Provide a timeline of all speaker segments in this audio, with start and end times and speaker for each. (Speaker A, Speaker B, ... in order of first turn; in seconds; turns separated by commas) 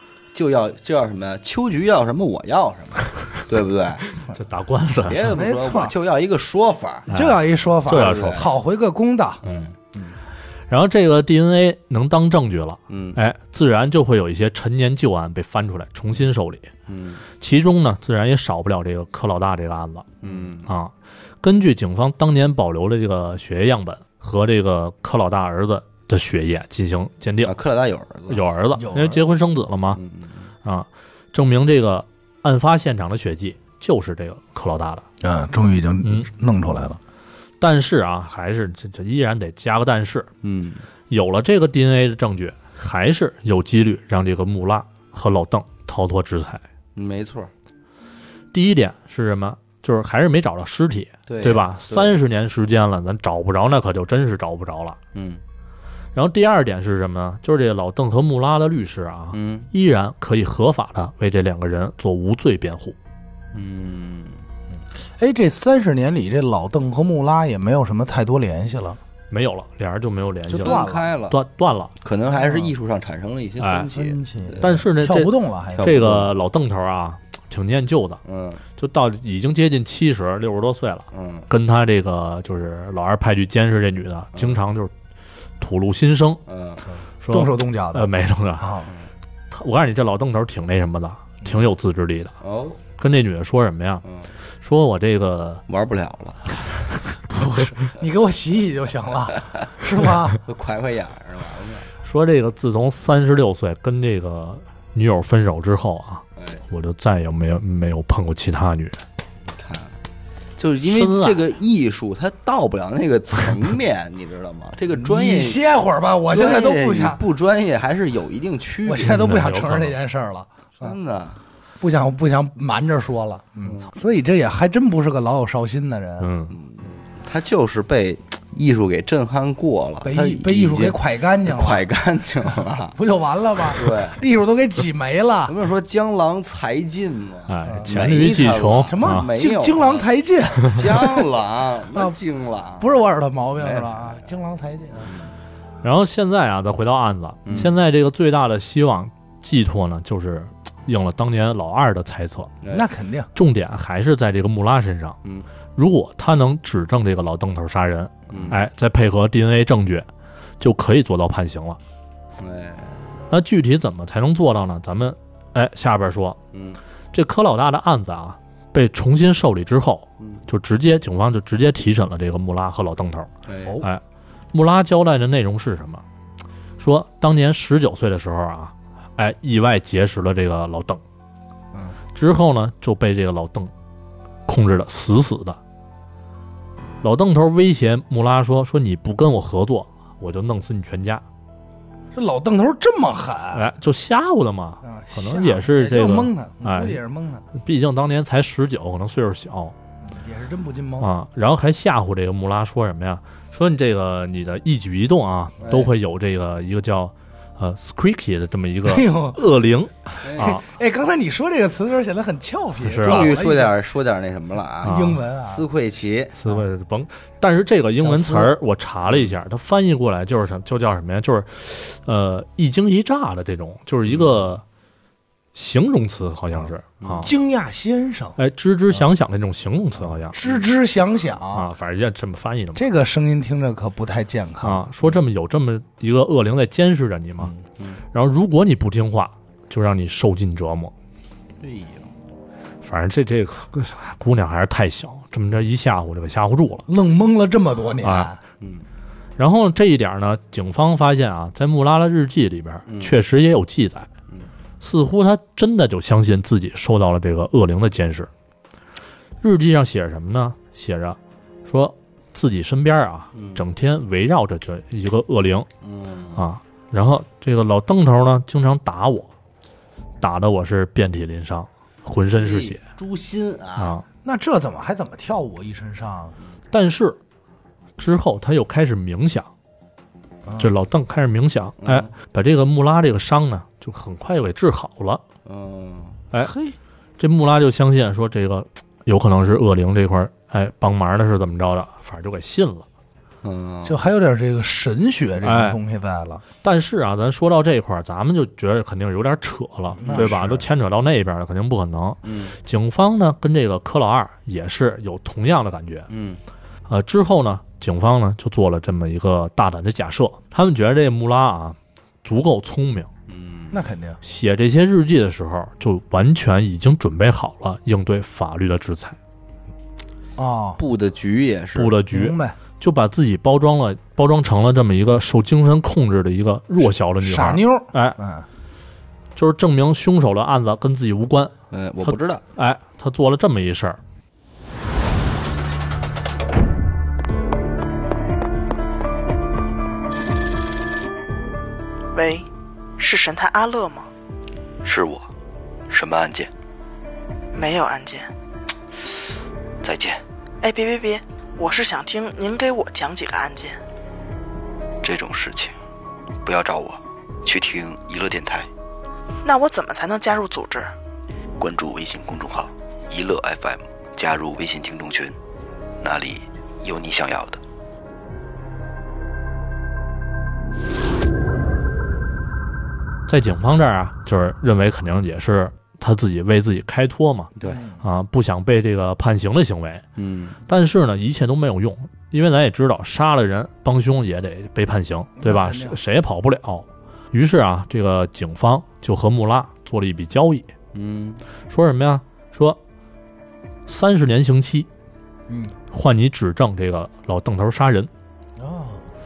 Speaker A: 0.3-4.1, Speaker B: 4.3-5.4, Speaker A: 5.0-7.2, Speaker C: 5.2-6.0, Speaker B: 7.1-8.4, Speaker C: 7.1-10.2, Speaker A: 7.9-8.5, Speaker A: 9.4-9.7, Speaker B: 10.7-16.7, Speaker A: 12.9-13.2, Speaker A: 16.9-17.2, Speaker B: 17.4-27.5, Speaker A: 20.2-20.7, Speaker A: 27.4-28.4, Speaker B: 28.3-30.0, Speaker C: 28.7-29.2, Speaker A: 29.9-30.5, Speaker B: 30.6-35.0, Speaker C: 35.2-37.0, Speaker B: 36.0-36.3, Speaker B: 37.6-40.3, Speaker A: 40.4-40.8, Speaker B: 41.1-46.6, Speaker A: 47.0-47.5, Speaker B: 48.5-55.0, Speaker A: 51.3-52.2, Speaker A: 55.1-55.4, Speaker B: 56.1-63.0, Speaker A: 59.3-59.7, Speaker A: 63.5-64.4, Speaker C: 65.0-69.0, Speaker B: 69.3-71.9, Speaker C: 70.5-71.1, Speaker A: 70.6-71.4, Speaker A: 72.0-74.8, Speaker C: 72.2-72.7, Speaker B: 73.6-73.9, Speaker C: 73.9-76.0, Speaker B: 74.6-78.2, Speaker A: 75.7-76.3, Speaker A: 78.2-78.6, Speaker B: 78.8-84.9, Speaker A: 81.1-81.5, Speaker B: 85.6-86.4, Speaker A: 86.5-86.8, Speaker B: 87.2-88.7, Speaker C: 87.3-88.9, Speaker B: 89.5-92.3, Speaker A: 92.4-92.8, Speaker B: 93.0-94.0, Speaker A: 94.0-94.3, Speaker B: 94.6-95.6, Speaker A: 95.7-96.5, Speaker C: 97.3-100.4, Speaker A: 100.4-101.9, Speaker B: 102.0-109.0, Speaker A: 106.4-106.6, Speaker A: 109.5-110.0, Speaker A: 110.6-115.6, Speaker B: 110.8-111.4, Speaker C: 114.9-117.2, Speaker A: 116.3-119.3, Speaker C: 118.8-121.0, Speaker B: 119.0-120.0, Speaker A: 120.8-121.4, Speaker C: 121.8-126.3, Speaker A: 123.6-123.9, Speaker B: 126.2-126.5, Speaker A: 126.5-133.0, Speaker C: 130.0-131.9, Speaker C: 132.5-135.5, Speaker A: 133.7-134.2, Speaker A: 135.5-140.1, Speaker B: 137.5-139.3, Speaker C: 137.7-141.3, Speaker A: 140.7-143.0, Speaker C: 142.8-145.1, Speaker A: 143.6-144.2, Speaker A: 145.0-145.3, Speaker B: 145.8-152.5, Speaker A: 147.4-147.7, Speaker A: 152.6-152.9, Speaker C: 152.7-153.3, Speaker B: 153.3-155.2, Speaker B: 155.7-160.1, Speaker A: 158.3-158.6, Speaker B: 160.6-161.8, Speaker A: 162.4-163.1, Speaker B: 163.3-166.4, Speaker A: 166.5-166.8, Speaker B: 167.1-173.3, Speaker A: 170.2-170.4, Speaker A: 173.5-173.8, Speaker B: 173.8-176.0, Speaker B: 176.8-181.0, Speaker C: 181.7-182.0, Speaker B: 182.1-183.7, Speaker B: 184.5-185.6, Speaker B: 187.0-191.2, Speaker C: 192.1-193.7, Speaker B: 193.5-197.0, Speaker C: 194.8-197.4, Speaker B: 197.5-199.7, Speaker C: 200.0-201.1, Speaker B: 201.0-210.6, Speaker A: 205.6-205.9, Speaker C: 208.8-209.4, Speaker A: 210.2-210.6, Speaker C: 210.4-213.8, Speaker B: 212.8-213.3, Speaker A: 213.0-216.4, Speaker C: 214.8-215.7, Speaker B: 214.8-215.2, Speaker B: 216.3-224.6, Speaker C: 218.0-218.5, Speaker B: 225.5-227.3, Speaker C: 227.2-228.4, Speaker B: 228.4-230.4, Speaker C: 230.0-231.7, Speaker B: 231.5-232.8, Speaker C: 232.7-234.9, Speaker B: 234.6-237.5, Speaker B: 238.1-240.9, Speaker A: 241.6-242.1, Speaker B: 242.8-246.8, Speaker C: 246.9-248.4, Speaker B: 248.0-248.3, Speaker A: 248.6-248.8, Speaker B: 249.4-254.1, Speaker A: 252.9-253.2, Speaker B: 254.8-258.3, Speaker B: 259.4-265.7, Speaker A: 263.3-263.6, Speaker A: 265.8-266.4, Speaker B: 266.4-269.3, Speaker B: 270.2-272.8, Speaker A: 272.4-273.9, Speaker B: 273.8-274.0, Speaker C: 274.2-276.4, Speaker B: 276.7-277.2, Speaker B: 278.0-279.5, Speaker B: 280.6-285.2, Speaker A: 281.8-282.1, Speaker A: 285.4-286.2, Speaker C: 286.4-286.8, Speaker B: 287.2-292.8, Speaker A: 293.4-294.0, Speaker C: 293.8-296.4, Speaker B: 295.4-295.8, Speaker B: 296.6-306.1, Speaker C: 299.9-300.6, Speaker A: 300.0-300.4, Speaker A: 302.2-302.6, Speaker A: 306.1-306.4, Speaker B: 306.9-313.1, Speaker A: 313.3-313.8, Speaker C: 313.7-314.2, Speaker B: 314.2-319.2, Speaker C: 320.4-320.8, Speaker A: 320.8-322.0, Speaker B: 321.7-328.2, Speaker C: 322.1-322.6, Speaker C: 326.9-328.5, Speaker B: 329.4-334.0, Speaker A: 331.7-332.4, Speaker D: 342.1-342.4, Speaker D: 343.0-344.1, Speaker E: 344.8-345.3, Speaker E: 345.9-346.5, Speaker D: 347.5-348.3, Speaker E: 349.8-350.2, Speaker D: 350.6-353.8, Speaker E: 355.0-355.8, Speaker E: 356.4-358.7, Speaker D: 359.4-360.9, Speaker E: 361.6-365.4, Speaker E: 366.0-367.6, Speaker B: 373.3-380.0, Speaker C: 377.6-378.1, Speaker A: 380.1-380.6, Speaker B: 380.7-390.7, Speaker C: 385.4-386.0, Speaker A: 390.9-391.4, Speaker B: 391.7-392.8, Speaker B: 393.9-394.9, Speaker C: 395.5-395.7, Speaker B: 395.9-398.1, Speaker C: 398.6-399.1